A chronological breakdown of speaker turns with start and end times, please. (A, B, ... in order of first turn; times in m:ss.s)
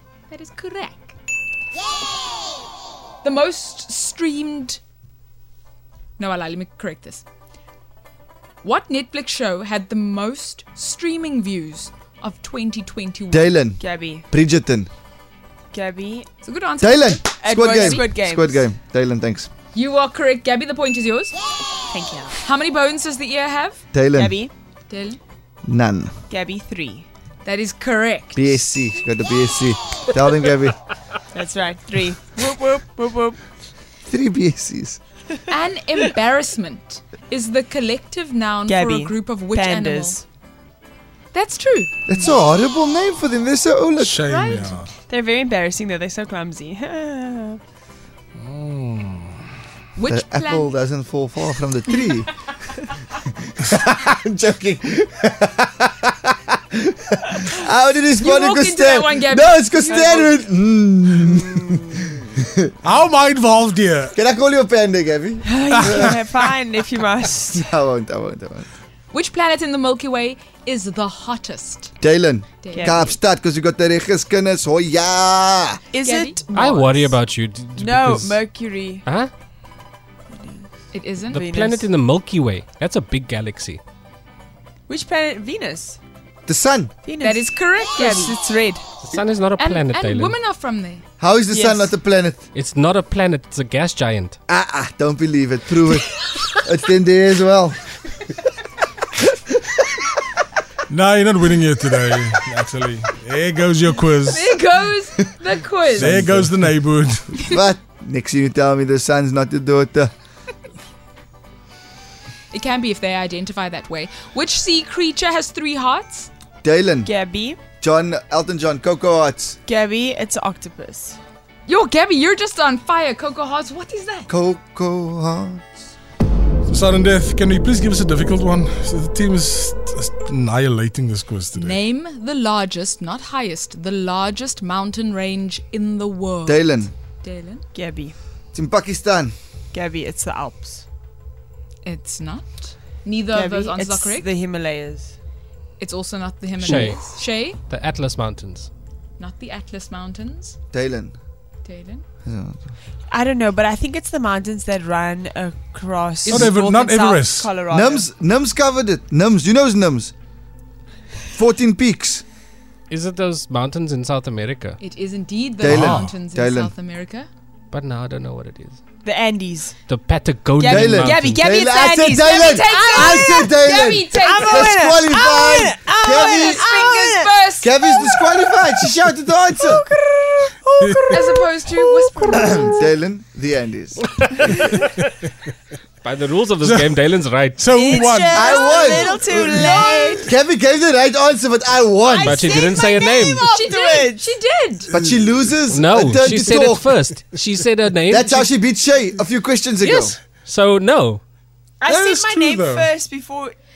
0:00.3-0:01.1 A
0:03.2-0:04.8 A
0:06.2-0:07.2 A
0:08.6-0:13.5 A
0:13.3-0:14.9 B
0:13.8-0:14.3 C
0:15.7-0:16.3 C
0:16.4-0:18.1 A
0:16.8-0:19.5 B
0:17.4-0:18.6 C
0:19.7-0:21.4 A
0:21.9-0:22.4 C
0:22.4-0:23.8 A
0:23.9-0:24.4 B
0:24.2-0:24.5 C
0:24.9-0:25.2 A
0:25.7-0:26.2 B
0:26.3-0:27.1 C
0:27.4-0:28.5 A
0:28.4-0:30.8 B
0:31.3-0:33.4 C
0:34.1-0:35.0 B
0:35.5-0:40.2 A
0:38.7-0:40.2 C
0:41.3-0:41.9 A
0:42.1-0:44.2 B
0:44.0-0:44.9 D
0:44.2-0:44.9 A
0:45.0-0:47.6 C
0:48.4-0:49.3 D
0:50.0-0:50.8 A
0:50.1-0:52.4 B
0:53.6-1:02.7 B
0:58.2-0:59.6 A
0:59.8-1:00.4 C
1:02.8-1:04.1 D
1:04.1-1:06.1 B
1:05.4-1:07.7 C
1:05.8-1:06.2 D
1:07.6-1:08.7 B
1:09.1-1:11.9 A
1:12.0-1:15.8 B
1:12.6-1:13.0 A
1:12.7-1:13.2 C
1:15.9-1:17.1 C
1:16.0-1:16.4 A
1:16.5-1:18.4 E
1:17.8-1:19.1 C
1:19.0-1:19.3 E
1:20.3-1:20.7 C
1:20.9-1:21.4 A
1:21.2-1:23.8 E
1:21.3-1:21.9 C
1:24.9-1:26.0 C
1:26.5-1:26.9 B
1:27.0-1:28.4 C
1:27.2-1:28.8 A
1:29.0-1:30.4 E
1:29.6-1:31.0 A
1:31.2-1:32.5 B
1:31.5-1:31.9 C
1:32.5-1:34.4 E
1:34.5-1:37.9 B
1:40.9-1:44.5 D
1:44.3-1:46.1 A
1:46.0-1:46.8 B
1:46.0-1:47.2 D
1:47.4-1:50.1 B
1:52.5-1:56.3 A
1:56.6-1:57.1 B
1:57.1-1:57.6 C
1:57.8-1:59.6 B
1:59.7-2:01.2 C
2:01.7-2:04.3 A
2:04.3-2:05.7 B
2:06.7-2:11.8 D
2:11.6-2:17.6 A
2:16.5-2:16.9 B
2:17.7-2:18.2 C
2:18.5-2:19.4 B
2:19.7-2:20.8 C
2:21.8-2:24.3 A
2:23.3-2:25.1 C
2:25.8-2:27.6 A
2:26.6-2:28.7 E
2:29.2-2:30.6 A
2:30.7-2:31.2 B
2:31.6-2:32.0 A
2:32.3-2:32.7 B
2:33.1-2:38.0 C
2:36.2-2:37.6 D
2:37.7-2:40.1 B
2:41.3-2:42.2 B
2:42.9-2:44.8 E
2:44.8-2:47.3 A
2:45.6-2:46.7 B
2:45.7-2:46.1 D
2:47.7-2:48.8 E
2:49.0-2:49.8 C
2:49.9-2:51.4 E
2:50.6-2:53.6 C
2:50.6-2:56.8 B
2:52.4-2:54.8 A
2:54.1-2:57.4 C
2:56.0-2:58.0 A
2:57.6-2:59.8 B
2:59.6-3:02.3 C
3:00.8-3:01.2 D
3:01.1-3:02.9 A
3:02.3-3:04.0 B
3:06.0-3:07.7 E
3:06.6-3:07.0 D
3:07.6-3:08.5 D
3:07.7-3:10.3 C
3:08.3-3:09.2 B
3:08.4-3:10.3 A
3:10.1-3:12.5 B
3:12.1-3:14.4 C
3:12.2-3:13.5 E
3:13.4-3:14.9 A
3:14.9-3:17.0 B
3:15.7-3:18.5 E
3:18.1-3:20.2 B
3:19.8-3:21.2 E
3:21.8-3:23.6 C
3:21.9-3:22.9 D